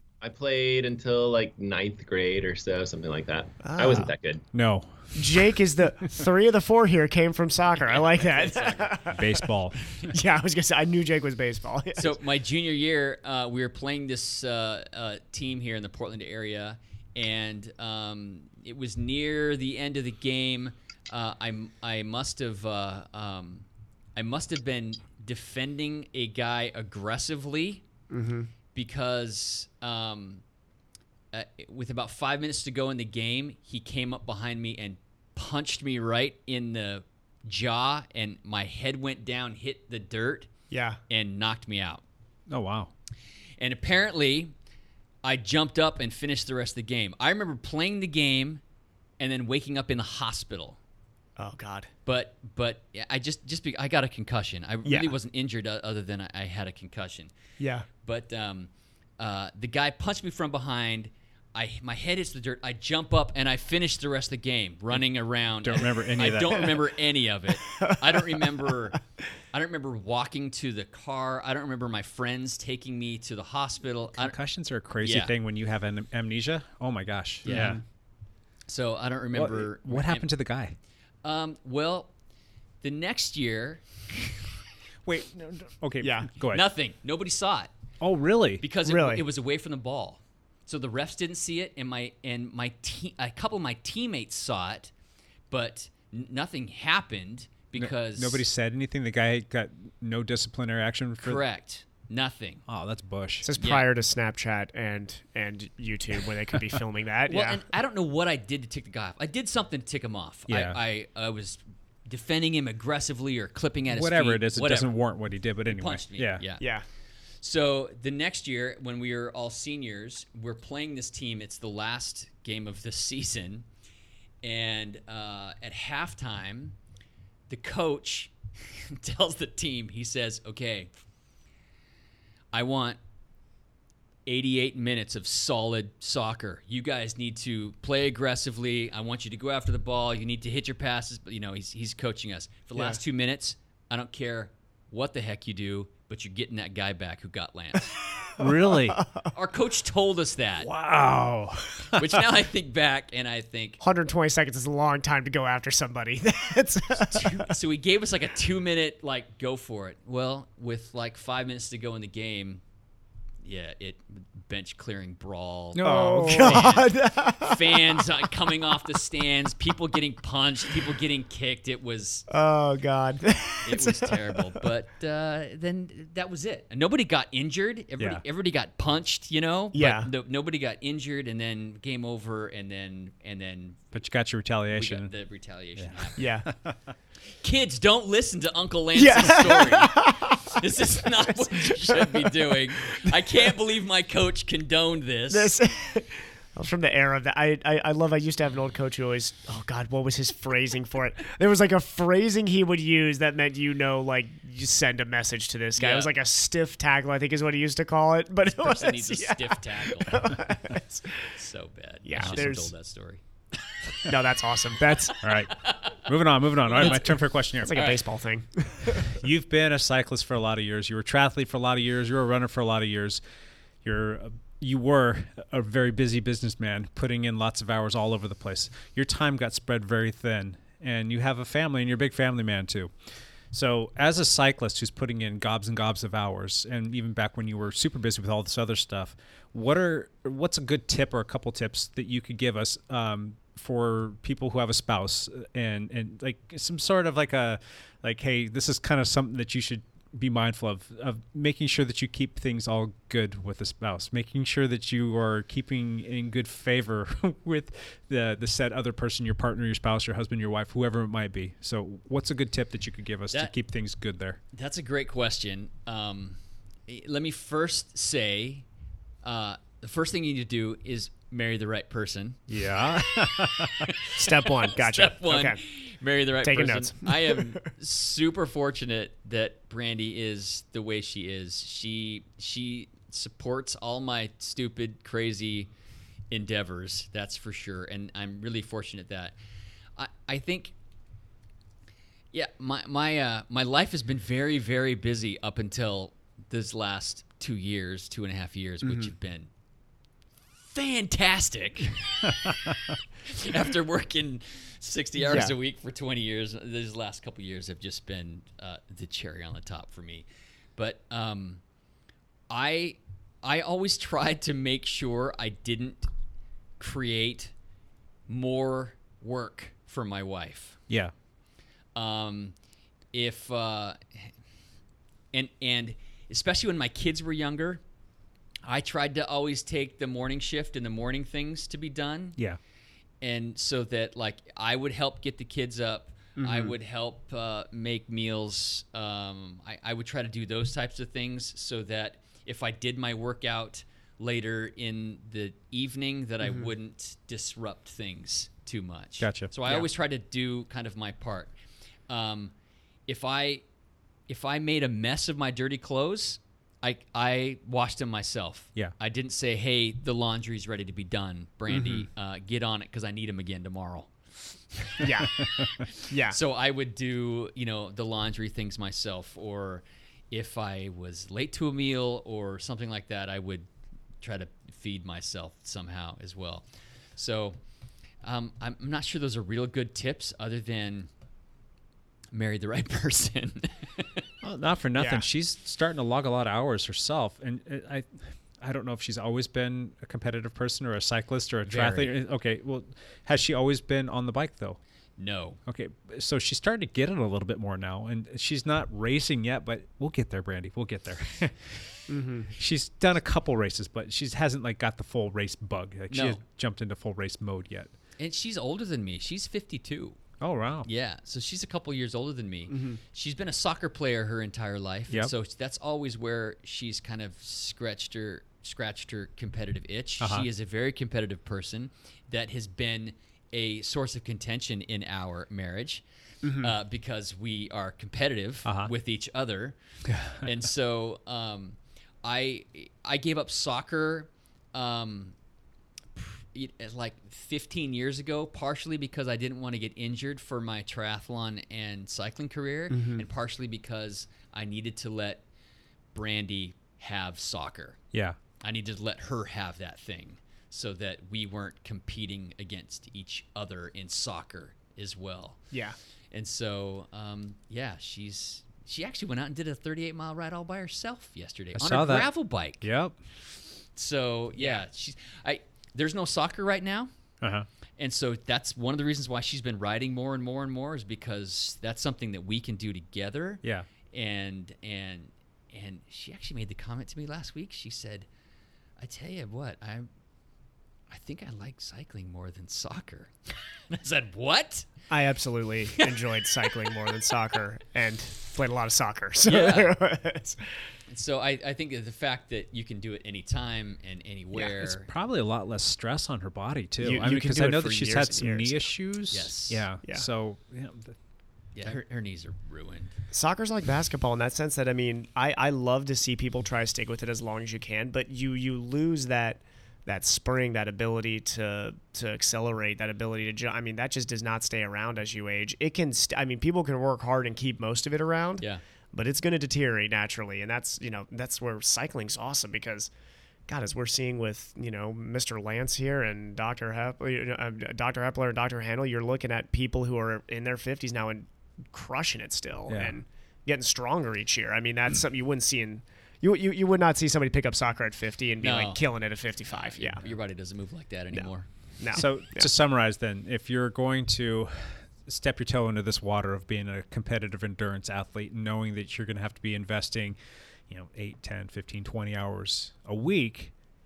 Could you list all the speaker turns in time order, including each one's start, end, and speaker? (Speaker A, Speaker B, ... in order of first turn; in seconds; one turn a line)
Speaker A: 0.2-4.4
Speaker B: 3.6-4.1
Speaker C: 4.5-5.4
Speaker B: 5.2-9.5
Speaker D: 7.8-9.2
Speaker C: 9.1-9.8
Speaker B: 10.0-12.2
Speaker D: 12.0-23.6
Speaker D: 24.2-27.8
Speaker B: 28.1-28.5
Speaker D: 28.8-30.4
Speaker D: 31.3-40.5
Speaker B: 40.7-41.0
Speaker D: 41.1-42.0
Speaker C: 42.5-42.9
Speaker D: 43.6-44.5
Speaker D: 45.2-48.6
Speaker D: 49.2-50.8
Speaker B: 51.4-51.9
Speaker D: 52.1-57.3
Speaker B: 54.9-55.1
Speaker B: 57.6-57.9
Speaker D: 58.0-69.0
Speaker C: 65.6-66.8
Speaker B: 67.7-68.7
Speaker D: 69.5-74.4
Speaker C: 74.2-77.8
Speaker D: 75.0-75.3
Speaker D: 77.5-77.8
Speaker B: 77.5-77.8
Speaker D: 78.7-80.3
Speaker C: 79.3-80.8
Speaker D: 81.2-82.1
Speaker D: 82.8-84.3
Speaker C: 85.0-86.6
Speaker B: 86.0-86.3
Speaker D: 86.5-87.7
Speaker C: 88.0-88.6
Speaker D: 88.6-94.9
Speaker B: 88.8-89.2
Speaker D: 95.5-98.4
Speaker C: 97.8-101.4
Speaker D: 101.2-102.6
Speaker C: 102.7-103.5
Speaker B: 103.4-107.6
Speaker D: 103.6-103.9
Speaker D: 107.3-115.0
Speaker C: 110.5-110.8
Speaker C: 113.9-116.4
Speaker D: 115.7-116.7
Speaker D: 117.4-123.7
Speaker D: 124.4-126.8
Speaker D: 127.5-130.9
Speaker D: 132.5-133.0
Speaker D: 134.3-148.0
Speaker C: 148.4-149.0
Speaker B: 148.9-149.3
Speaker D: 149.3-150.7
Speaker C: 150.6-152.2
Speaker D: 152.0-153.8
Speaker B: 153.8-157.5
Speaker D: 157.0-162.6
Speaker D: 163.4-172.3
Speaker C: 165.8-166.8
Speaker B: 165.8-168.1
Speaker B: 172.3-174.6
Speaker D: 173.7-183.8
Speaker B: 179.7-180.1
Speaker C: 183.9-185.1
Speaker D: 184.7-186.2
Speaker C: 185.8-186.8
Speaker B: 186.2-186.5
Speaker D: 187.4-195.5
Speaker B: 188.9-190.6
Speaker B: 191.4-192.4
Speaker B: 195.3-211.2
Speaker D: 205.8-206.1
Speaker D: 208.5-210.4
Speaker D: 211.2-213.2
Speaker B: 212.1-212.7
Speaker C: 212.2-212.5
Speaker B: 214.1-215.2
Speaker C: 215.2-217.9
Speaker D: 215.3-216.0
Speaker D: 216.7-217.2
Speaker B: 217.6-219.1
Speaker D: 217.7-218.0
Speaker C: 219.0-223.2
Speaker C: 223.8-232.9
Speaker C: 233.5-264.4
Speaker D: 264.5-268.6
Speaker D: 269.2-285.7
Speaker C: 272.5-273.9
Speaker B: 274.1-275.6
Speaker B: 276.4-277.5
Speaker D: 286.3-289.4
Speaker D: 290.0-290.7
Speaker D: 292.3-299.5
Speaker B: 298.8-299.1
Speaker D: 300.6-310.3
Speaker B: 305.2-305.5
Speaker D: 310.8-311.6
Speaker D: 312.5-316.1
Speaker D: 316.8-317.5
Speaker D: 318.3-320.8
Speaker C: 320.9-321.1
Speaker D: 321.9-322.5
Speaker D: 323.1-324.3
Speaker D: 325.3-327.8
Speaker D: 328.6-332.4
Speaker D: 333.2-351.5
Speaker B: 336.4-336.7
Speaker B: 346.4-346.7
Speaker C: 349.2-349.5
Speaker D: 352.1-352.5
Speaker D: 353.1-353.6
Speaker D: 354.3-364.1
Speaker B: 361.7-362.1
Speaker D: 364.8-365.1
Speaker B: 365.0-365.4
Speaker D: 365.6-373.7
Speaker B: 366.1-366.4
Speaker D: 374.2-376.6
Speaker D: 377.2-377.6
Speaker D: 378.2-381.1
Speaker D: 382.3-384.3
Speaker C: 384.4-394.8
Speaker B: 385.0-385.2
Speaker D: 391.7-392.2
Speaker D: 395.2-395.6
Speaker C: 395.7-402.0
Speaker B: 402.1-402.5
Speaker C: 402.5-407.9
Speaker D: 406.1-406.4
Speaker D: 408.2-410.2
Speaker C: 410.4-410.9
Speaker D: 410.9-426.0
Speaker B: 412.7-413.0
Speaker C: 420.2-420.5
Speaker B: 426.4-426.7
Speaker D: 426.6-429.8
Speaker C: 428.6-428.9
Speaker C: 430.1-430.5
Speaker D: 430.4-435.3
Speaker D: 436.2-445.4
Speaker B: 442.9-443.2
Speaker D: 446.1-448.0
Speaker C: 448.1-448.4
Speaker D: 448.6-455.6
Speaker D: 456.3-462.9
Speaker C: 461.8-462.3
Speaker C: 462.8-463.1
Speaker D: 463.9-467.1
Speaker C: 467.4-467.7
Speaker D: 468.0-478.3
Speaker C: 473.6-473.9
Speaker D: 479.0-480.1
Speaker D: 481.1-483.3
Speaker D: 483.9-484.9
Speaker B: 485.1-490.6
Speaker D: 489.4-489.9
Speaker D: 491.1-495.1
Speaker C: 494.8-501.1
Speaker B: 497.0-498.9
Speaker D: 499.3-499.9
Speaker D: 501.8-503.1
Speaker B: 503.3-523.1
Speaker B: 523.7-540.2
Speaker C: 532.9-533.2
Speaker D: 538.6-539.0
Speaker D: 539.7-541.7
Speaker B: 542.0-542.7
Speaker C: 542.1-550.4
Speaker C: 550.9-553.7